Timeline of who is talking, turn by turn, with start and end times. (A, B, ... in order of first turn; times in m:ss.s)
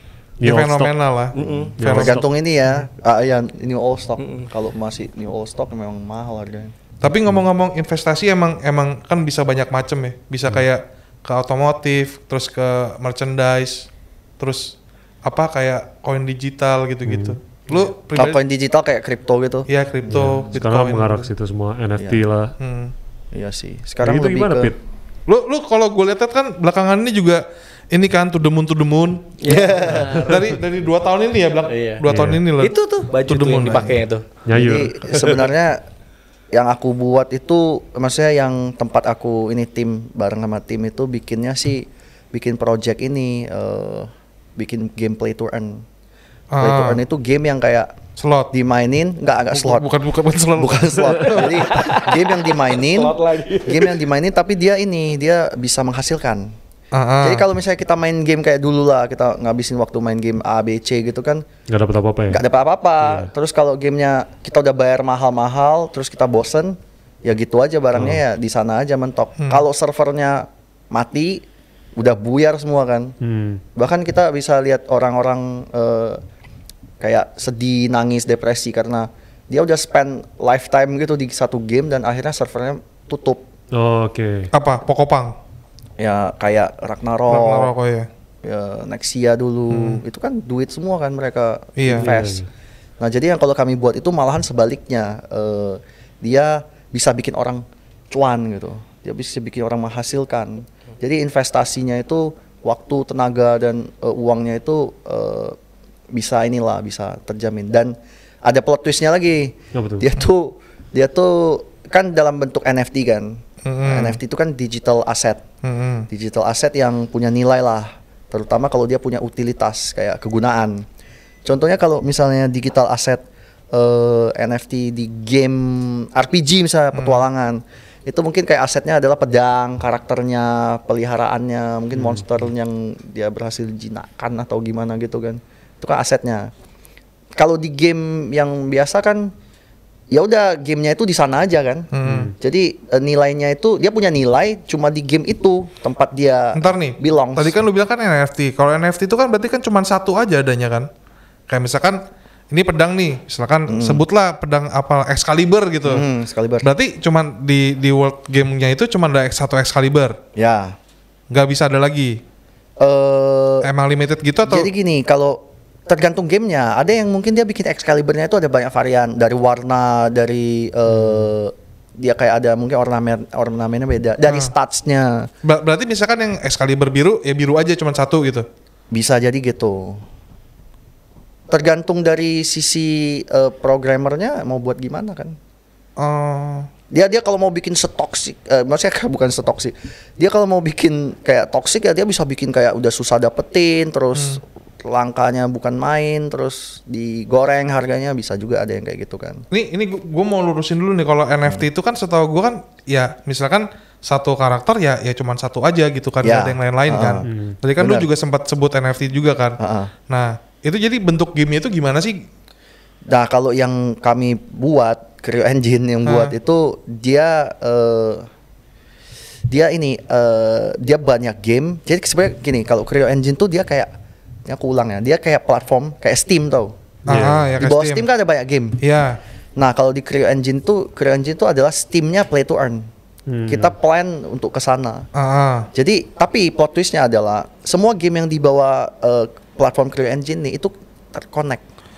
0:00.4-0:00.9 A
0:00.4-0:02.8 B
0:01.3-0:01.7 C
0:01.5-0:06.7 D
0:01.8-0:02.3 A
0:04.2-0:04.5 C
0:07.0-0:13.9 B
0:14.4-0:18.4 B
0:17.0-0:17.4 A
0:18.1-0:19.7 D
0:19.7-0:21.3 B
0:20.0-0:22.5 A
0:22.0-0:22.2 D
0:22.6-0:22.9 B
0:23.3-0:24.7 D
0:24.0-0:24.8 A
0:25.3-0:34.0 B
0:29.4-0:30.5 C
0:29.5-0:30.4 D
0:31.7-0:32.0 C
0:32.0-0:32.4 A
0:32.6-0:34.2 C
0:34.4-0:35.0 A
0:34.5-0:35.8 D
0:35.1-0:35.5 C
0:36.5-0:45.8 D
0:46.5-0:47.0 B
0:46.6-0:47.9 D
0:48.2-0:48.5 B
0:48.5-0:49.9 D
0:49.5-0:51.8 B
0:50.6-0:56.5 D
0:51.0-0:54.0 C
0:56.9-0:57.4 B
0:57.2-1:01.4 D
1:01.7-1:02.4 A
1:02.3-1:11.4 D
1:03.0-1:03.3 A
1:07.9-1:08.2 A
1:12.0-1:13.2 D
1:13.2-1:13.6 A
1:13.7-1:16.2 D
1:17.0-1:23.4 D
1:23.7-1:24.5 A
1:24.5-1:25.3 B
1:26.0-1:27.7 D
1:27.3-1:28.1 B
1:28.4-1:32.5 D
1:29.7-1:30.0 B
1:31.8-1:32.1 B
1:31.9-1:32.5 A
1:33.0-1:45.6 D
1:46.1-1:55.4 D
1:49.7-1:50.1 A
1:53.6-1:54.2 B
1:55.6-1:56.1 B
1:56.1-2:00.8 D
2:01.4-2:16.5 D
2:06.9-2:07.2 B
2:11.9-2:12.5 A
2:17.4-2:19.3 D
2:20.1-2:27.5 D
2:21.9-2:22.3 B
2:22.0-2:22.3 A
2:26.5-2:30.9 B
2:31.5-2:36.0 B
2:33.7-2:34.0 D
2:35.8-2:36.7 D
2:36.6-2:40.2 B
2:40.4-2:40.8 D
2:41.3-2:42.2 B
2:42.8-2:43.7 D
2:43.6-2:44.7 B
2:44.4-2:55.3 D
2:54.3-2:54.5 B
2:55.4-2:58.4 B
2:58.9-3:00.0 D
3:01.5-3:05.4 D
3:06.0-3:06.7 B
3:06.9-3:19.4 D
3:14.1-3:14.4 B
3:19.5-3:32.2 B
3:26.2-3:27.2 D
3:27.2-3:27.6 A
3:27.8-3:28.1 D
3:29.6-3:29.9 D
3:33.1-3:38.3 D
3:36.0-3:36.3 B
3:39.5-3:43.9 D
3:44.4-3:46.7 D
3:47.0-3:47.6 A
3:47.1-3:48.1 B
3:47.6-3:48.8 D
3:48.8-3:49.2 B
3:49.6-3:52.9 D
3:53.3-3:53.7 A
3:53.5-3:55.1 D
3:55.1-3:55.7 B
3:55.7-4:01.6 D